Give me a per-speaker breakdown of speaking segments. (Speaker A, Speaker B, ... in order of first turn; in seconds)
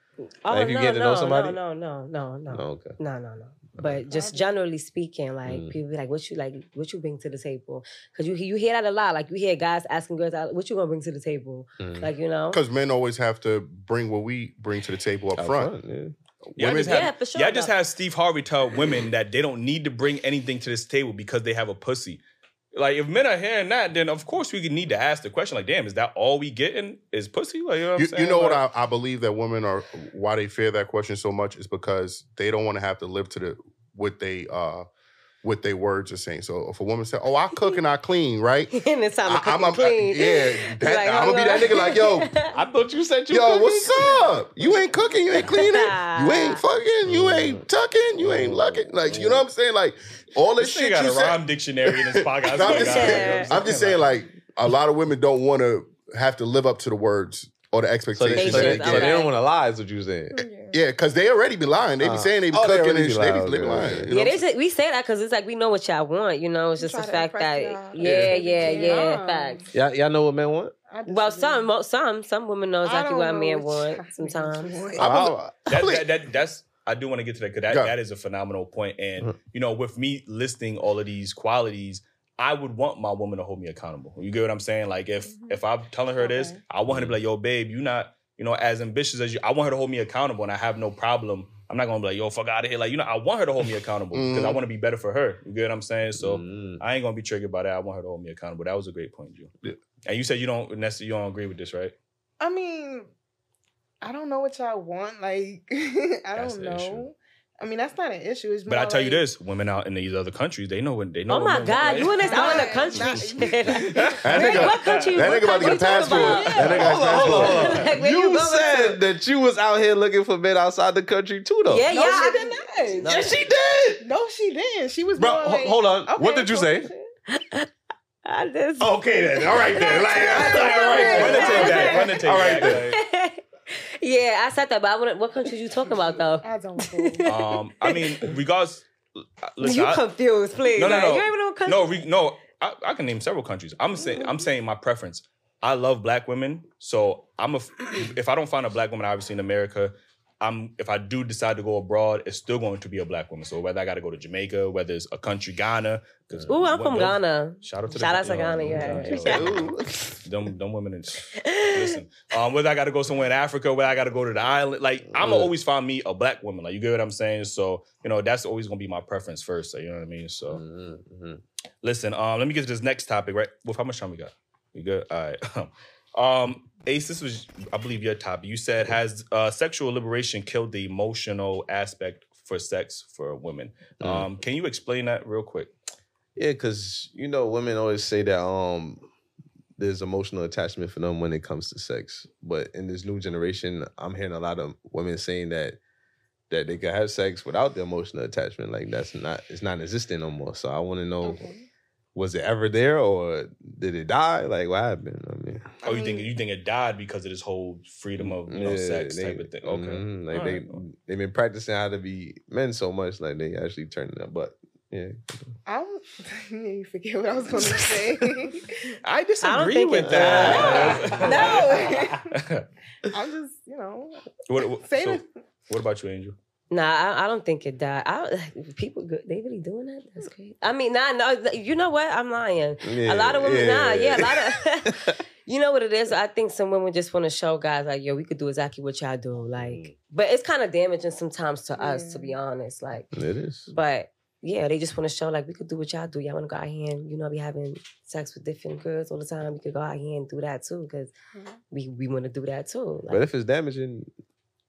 Speaker A: 0.4-12.6, 16.8-17.7, 38.7-42.5, 45.4-46.6, 52.6-53.5, 58.3-59.3, 64.1-69.7, 71.1-75.0, 111.3-119.0, 121.7-123.2, 127.3-127.7, 128.2-138.3, 139.6-142.0, 156.5-159.7, 161.3-162.0, 219.4-221.8, 226.7-243.1, 243.7-251.1, 251.7-253.2
Speaker B: 0.5-1.6, 2.5-3.0, 5.5-5.7, 11.8-12.1, 15.3-16.1, 42.5-44.2, 47.0-49.4, 53.4-54.0, 58.1-60.4, 62.0-64.1, 68.0-68.4, 69.7-70.8, 75.0-75.5, 86.9-87.1, 96.2-96.8, 113.9-114.2, 116.5-121.9, 123.0-124.0, 125.2-126.9, 128.8-132.9, 158.6-160.2, 165.1-165.5, 170.5-171.4, 184.0-184.3, 186.3-189.0, 189.8-195.8, 196.5-201.5, 202.1-205.7, 208.2-215.2, 220.0-221.5, 232.8-235.2, 239.6-240.0, 243.1-243.7, 253.1-254.1
Speaker C: 4.1-4.5, 68.3-69.7, 70.9-71.7, 72.8-75.1, 86.2-86.6, 102.4-103.1, 104.0-109.2, 112.0-114.6, 115.5-117.7, 121.9-123.3, 124.0-127.1, 130.3-131.9, 135.9-137.2, 201.2-201.7, 205.8-206.3, 215.7-218.9, 220.5-222.3, 223.1-224.2, 224.8-225.2, 241.8-242.4
Speaker D: 12.5-15.7, 16.5-17.1, 28.0-34.9, 35.4-42.3, 43.3-59.2, 60.7-64.4, 75.0-76.0, 77.7-77.9, 94.1-94.6, 114.2-117.8
Speaker E: 16.6-22.2, 22.7-28.6, 50.6-53.9, 75.7-99.5, 100.0-101.9, 106.3-107.1, 108.7-112.4, 114.3-115.1, 131.0-133.0, 137.2-140.0, 140.7-170.6, 171.8-185.7, 205.8-210.8, 219.0-222.7, 224.5-226.3
Speaker F: 60.3-60.8, 66.8-69.1, 112.1-113.1